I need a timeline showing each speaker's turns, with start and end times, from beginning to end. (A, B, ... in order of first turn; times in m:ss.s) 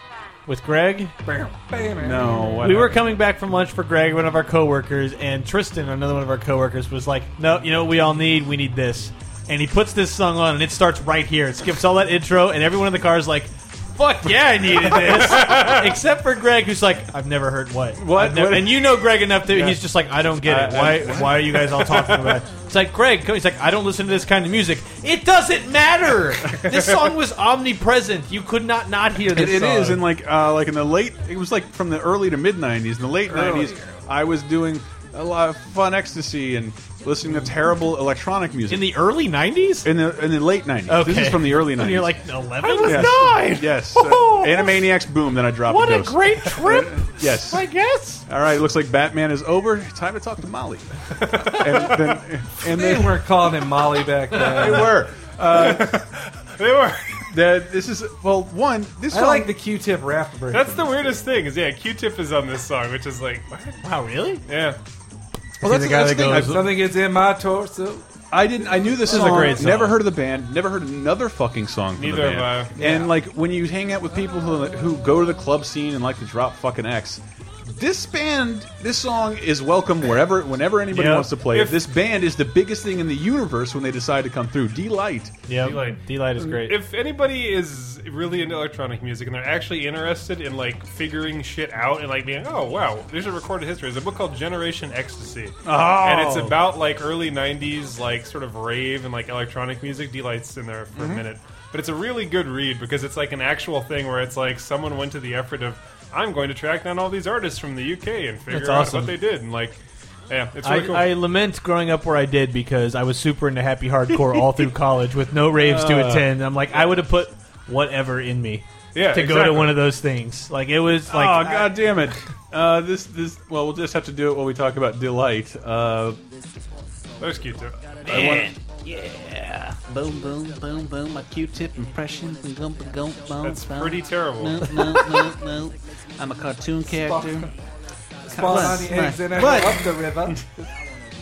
0:00.5-0:01.1 A
0:01.2-0:02.6 B
0:02.0-0:03.1 C
0:02.6-0:30.1 A
0:15.0-0:15.8 D
0:18.0-0:19.8 C
0:20.4-0:22.4 C
0:29.2-0:39.0 C
0:33.3-0:34.0 B
0:38.7-0:39.9 A
0:39.8-0:47.6 C
0:40.9-0:44.7 A
0:45.6-0:48.2 A
0:48.2-0:53.3 C
0:51.2-0:52.2 D
0:52.6-0:55.0 B
0:54.3-0:56.0 C
0:55.5-0:57.2 D
0:57.3-0:59.5 C
0:59.1-1:01.2 B
1:00.5-1:03.7 D
1:03.8-1:04.4 A
1:04.5-1:04.8 D
1:05.6-1:06.7 A
1:05.6-1:06.8 C
1:05.6-1:08.1 B
1:08.3-1:25.9 C
1:08.6-1:09.6 B
1:09.0-1:10.1 A
1:12.0-1:12.7 D
1:12.8-1:13.1 A
1:20.9-1:21.4 A
1:21.5-1:21.8 D
1:25.5-1:26.8 A
1:25.6-1:51.2 D
1:35.6-1:36.6 C
1:40.9-1:41.2 C
1:48.5-1:49.1 A
1:50.6-2:01.6 A
1:55.7-1:56.2 D
1:58.9-1:59.8 D
2:01.1-2:06.2 C
2:07.2-2:07.8 D
2:08.0-2:08.5 C
2:08.1-2:08.5 A
2:08.3-2:17.5 E
2:13.4-2:14.8 D
2:17.0-2:17.5 B
2:18.3-2:20.6 B
2:18.3-2:19.3 E
2:19.2-2:20.1 C